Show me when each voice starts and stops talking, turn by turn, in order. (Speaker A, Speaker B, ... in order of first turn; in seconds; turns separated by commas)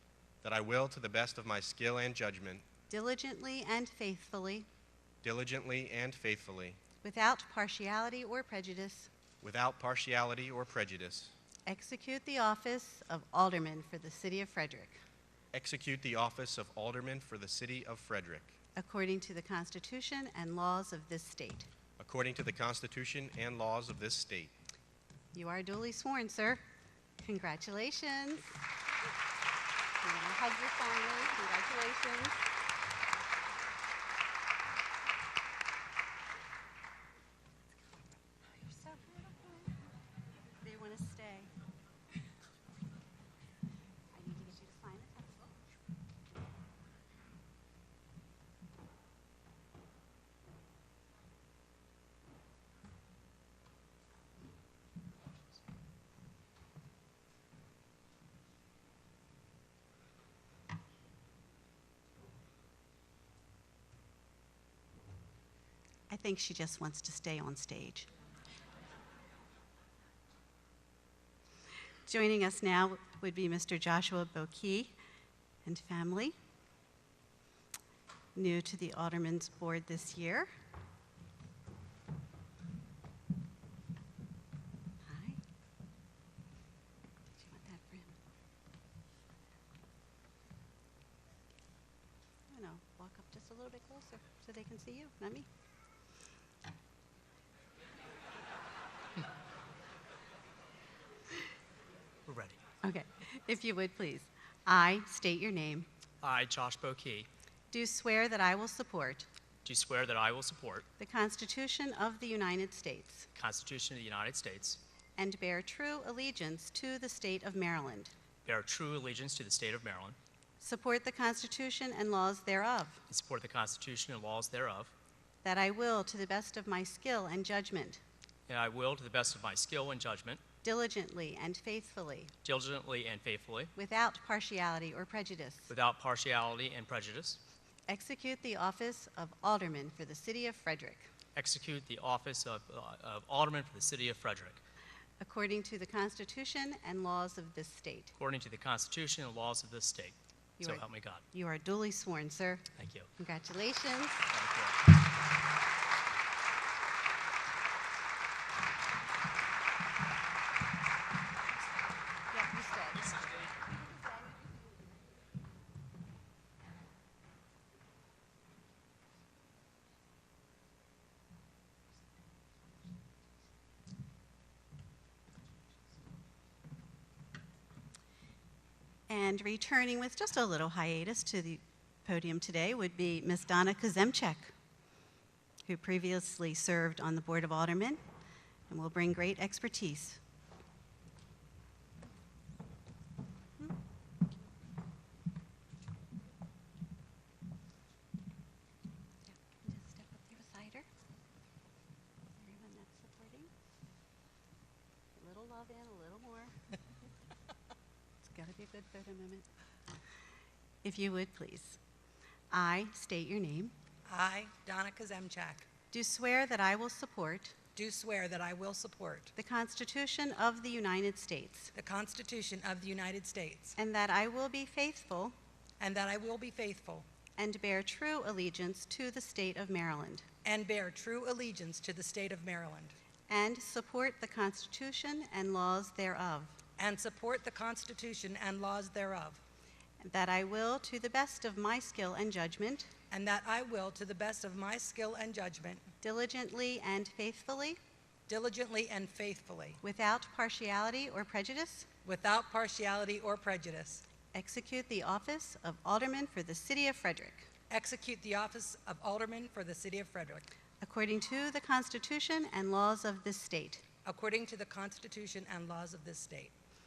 Speaker A: 0.4-2.6, Speaker B: 2.9-4.7, Speaker A: 5.2-6.8, Speaker B: 7.0-9.1, Speaker A: 9.4-11.3, Speaker B: 11.7-15.0, Speaker A: 15.5-18.6, Speaker B: 18.8-21.7, Speaker A: 22.0-24.5, Speaker B: 25.3-26.6, Speaker B: 27.2-28.5, Speaker B: 30.0-32.5, Speaker B: 37.7-39.7, Speaker B: 40.6-41.5, Speaker B: 44.1-45.6, Speaker B: 66.1-68.1, Speaker B: 72.1-74.9, Speaker B: 75.7-76.3, Speaker B: 78.3-80.5, Speaker B: 85.0-85.4, Speaker B: 87.3-88.2, Speaker B: 92.5-95.5, Speaker C: 102.3-102.6, Speaker B: 102.8-105.9, Speaker C: 106.2-107.3, Speaker B: 107.7-109.3, Speaker C: 109.7-110.8, Speaker B: 111.0-113.3, Speaker C: 113.3-114.8, Speaker B: 115.2-118.1, Speaker C: 118.5-120.2, Speaker B: 120.6-123.0, Speaker C: 123.1-124.9, Speaker B: 125.4-128.0, Speaker C: 128.5-130.4, Speaker B: 130.6-132.3, Speaker C: 132.4-133.7, Speaker B: 133.8-135.7, Speaker C: 135.7-137.4, Speaker B: 137.9-141.1, Speaker C: 141.3-144.6, Speaker B: 145.2-148.2, Speaker C: 148.2-151.2, Speaker B: 150.6-152.7, Speaker C: 152.8-153.1, Speaker B: 153.2-154.3, Speaker C: 154.3-154.8, Speaker B: 162.3-163.4, Speaker B: 179.1-184.5, Speaker B: 185.7-188.0, Speaker B: 188.7-190.2, Speaker B: 199.3-200.9, Speaker B: 202.4-203.5, Speaker B: 205.2-206.6, Speaker B: 208.2-209.5, Speaker B: 210.8-211.8, Speaker B: 212.5-213.7, Speaker D: 214.1-215.7, Speaker B: 215.9-217.6, Speaker D: 217.8-219.3, Speaker B: 219.3-221.7, Speaker D: 221.7-223.8, Speaker B: 223.8-225.3, Speaker D: 225.8-227.1, Speaker B: 227.4-230.3, Speaker D: 230.4-233.0, Speaker B: 233.3-236.6, Speaker D: 236.8-239.4, Speaker B: 240.0-242.9, Speaker D: 243.1-245.9, Speaker B: 246.0-247.8, Speaker D: 248.3-249.8, Speaker B: 249.8-251.9, Speaker D: 252.1-254.0, Speaker B: 254.3-257.5, Speaker D: 257.7-260.5, Speaker B: 260.8-263.8, Speaker D: 264.1-266.5